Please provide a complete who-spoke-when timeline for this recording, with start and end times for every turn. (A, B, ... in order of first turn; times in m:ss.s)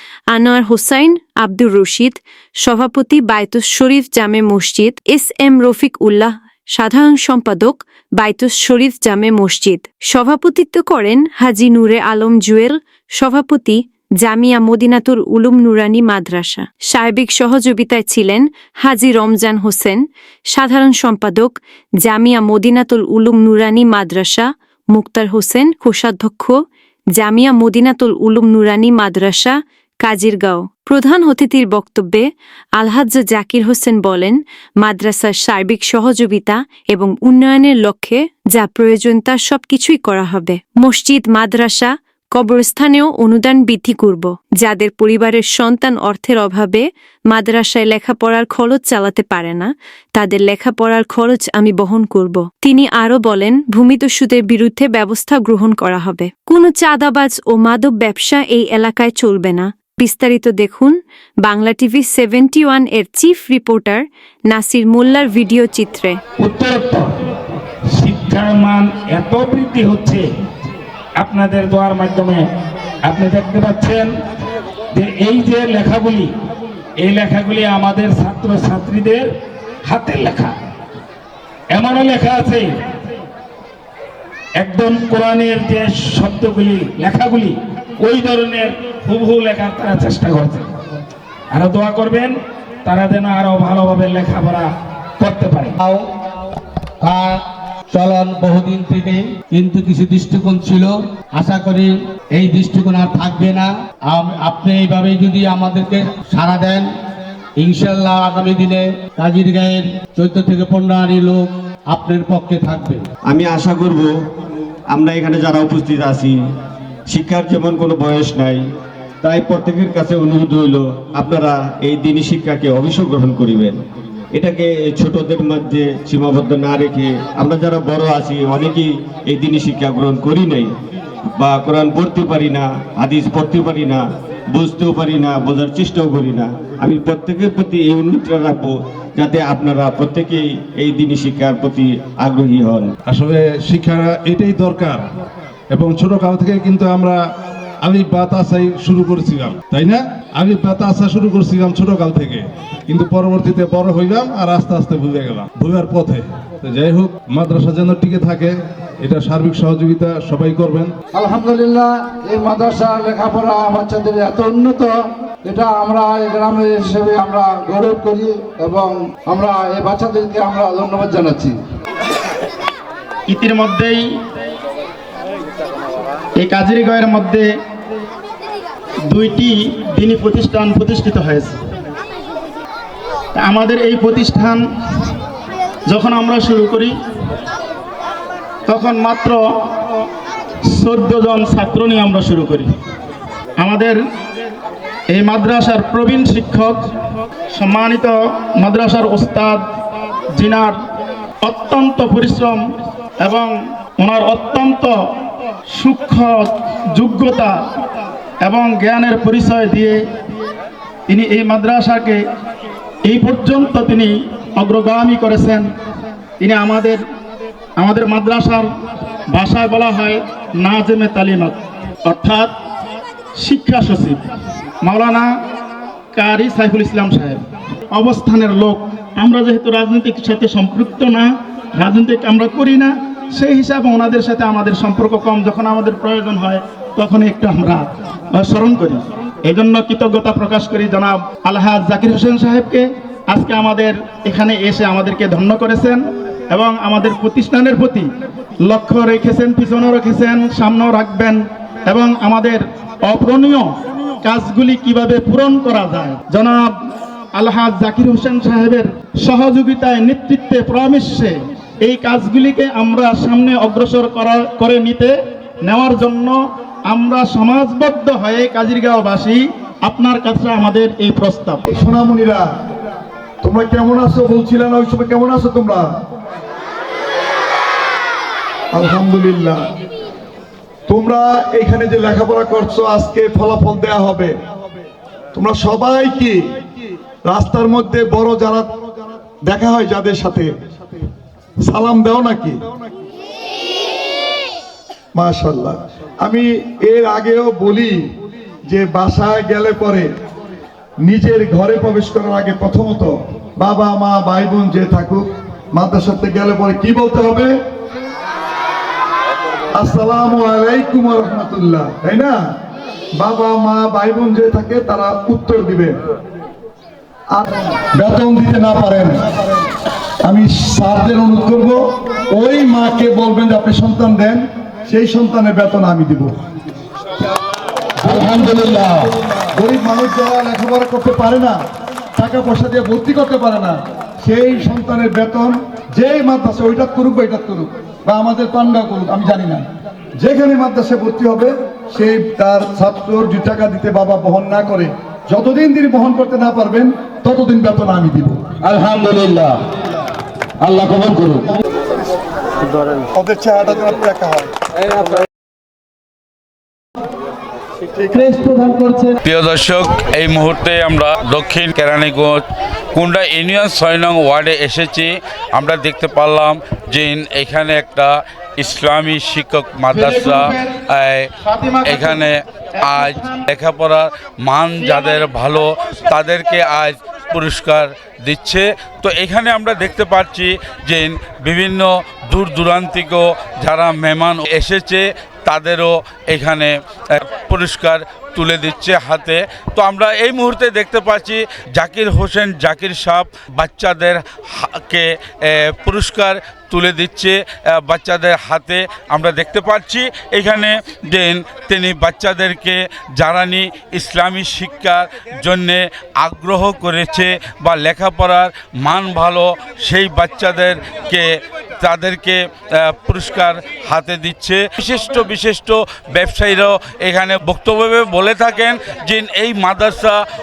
0:00.3-0:26.6 A
0:27.1-1:06.2 A
1:06.4-1:07.2 B
1:07.9-1:10.3 B
1:11.2-1:12.5 B
1:13.0-1:14.2 B
1:14.9-1:16.3 B
1:17.0-1:20.5 B
1:21.7-1:22.8 B
1:24.6-1:30.8 B
1:31.5-1:35.8 B
1:37.0-1:46.9 C
1:47.6-1:53.1 C
1:53.3-1:54.1 D
1:54.9-1:56.4 D
1:57.1-1:58.6 D
1:59.2-2:03.8 D
2:04.3-2:10.7 D
2:11.4-2:22.9 D
2:23.1-2:25.0 E
2:25.7-2:27.2 E
2:27.8-2:40.9 E
2:41.1-2:51.6 F
2:53.3-2:54.1 G
2:56.4-2:57.5 G
2:59.1-3:01.6 G
3:03.3-3:04.6 G
3:05.8-3:06.9 G
3:08.7-3:09.4 G
3:10.6-3:12.7 G
3:13.6-3:14.0 G
3:15.1-3:16.8 G
3:17.5-3:19.6 G
3:20.3-3:20.8 G
3:21.4-3:22.6 G
3:23.2-3:25.0 G
3:25.7-3:27.6 G
3:28.4-3:30.0 G
3:31.1-3:32.2 G
3:33.0-3:35.7 G
3:36.4-3:37.0 G
3:37.8-3:38.7 G
3:39.3-3:42.6 G
3:43.4-3:44.2 G
3:44.8-3:45.3 G
3:46.1-3:47.4 G
3:47.9-4:08.1 G
4:08.6-4:16.8 G
4:17.3-4:31.6 G
4:31.7-4:32.5 H
4:33.4-4:35.8 H
4:38.7-4:39.6 H
4:40.9-4:44.3 H
4:45.3-4:46.4 H
4:47.2-4:48.7 H
4:49.4-4:50.5 H
4:51.6-4:52.6 H
4:55.1-4:58.0 H
4:58.7-5:00.1 H
5:01.0-5:07.6 H
5:09.7-5:12.4 H
5:13.2-5:15.9 H
5:17.3-5:19.5 H
5:20.2-5:26.3 H
5:28.0-5:29.1 C
5:29.5-5:31.6 H
5:32.2-5:39.7 H
5:40.2-5:48.4 H
5:48.7-5:49.5 C
5:50.7-5:51.4 C
5:53.1-5:54.5 H
5:58.0-5:58.4 H
5:59.2-6:02.4 I
6:02.9-6:11.3 I
6:09.9-6:10.6 G
6:11.4-6:12.2 G
6:11.8-6:51.2 I
6:12.8-6:13.4 G
6:51.8-6:52.4 I
6:52.9-7:00.2 I